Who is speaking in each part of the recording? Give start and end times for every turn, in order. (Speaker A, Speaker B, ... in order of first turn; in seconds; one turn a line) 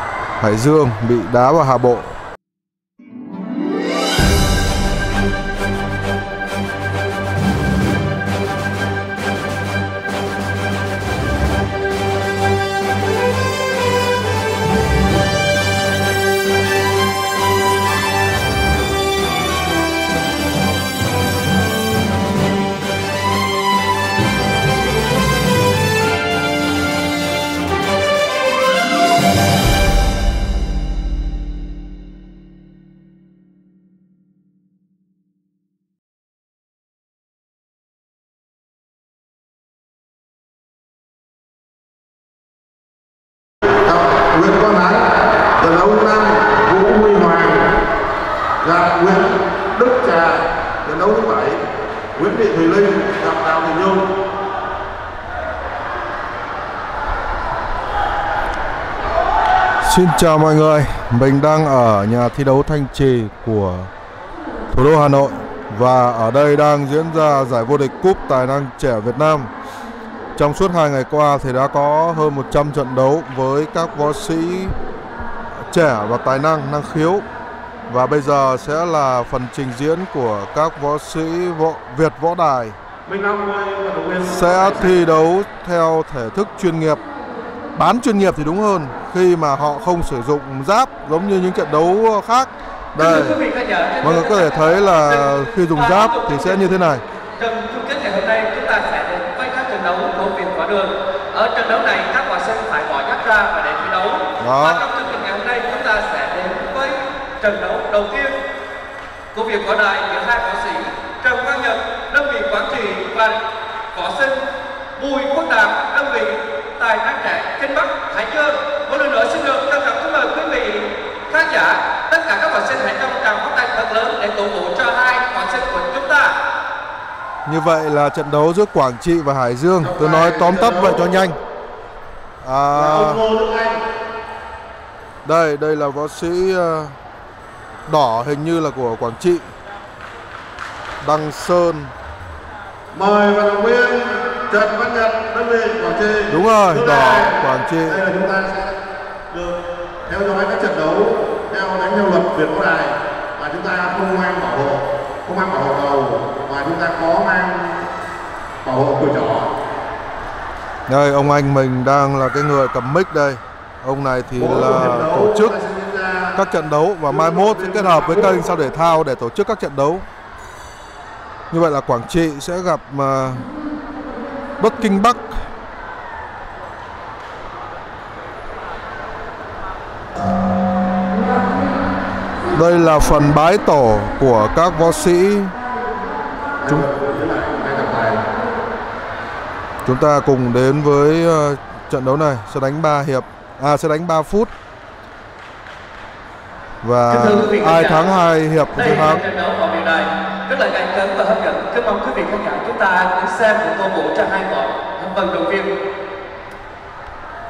Speaker A: 0.4-2.1
Speaker B: 43.8-47.8
Speaker B: 48.6-51.6
Speaker B: 52.1-54.1
Speaker A: 59.8-63.9
Speaker A: 64.7-69.5
Speaker A: 70.4-74.8
Speaker A: 75.5-77.3
Speaker A: 77.9-82.8
Speaker B: 83.1-85.0
Speaker A: 84.3-87.0
Speaker A: 87.8-93.4
Speaker C: 93.0-96.7
Speaker A: 94.0-97.0
Speaker C: 97.4-108.4
Speaker A: 104.4-104.8
Speaker C: 109.3-113.4
Speaker C: 113.9-114.4
Speaker C: 115.0-126.4
Speaker A: 127.5-131.4
Speaker B: 129.8-131.1
Speaker A: 132.4-133.2
Speaker B: 132.7-133.8
Speaker A: 135.2-137.0
Speaker A: 137.9-139.5
Speaker A: 141.0-141.9
Speaker B: 142.9-148.8
Speaker A: 146.3-148.0
Speaker B: 149.3-157.9
Speaker B: 158.6-159.5
Speaker A: 160.9-165.6
Speaker B: 164.4-166.4
Speaker A: 166.3-170.1
Speaker B: 167.1-168.4
Speaker A: 171.5-173.5
Speaker A: 174.6-175.5
Speaker A: 182.5-185.6
Speaker B: 186.7-188.2
Speaker A: 189.8-194.5
Speaker A: 196.8-199.2
Speaker C: 197.1-198.2
Speaker C: 198.7-205.8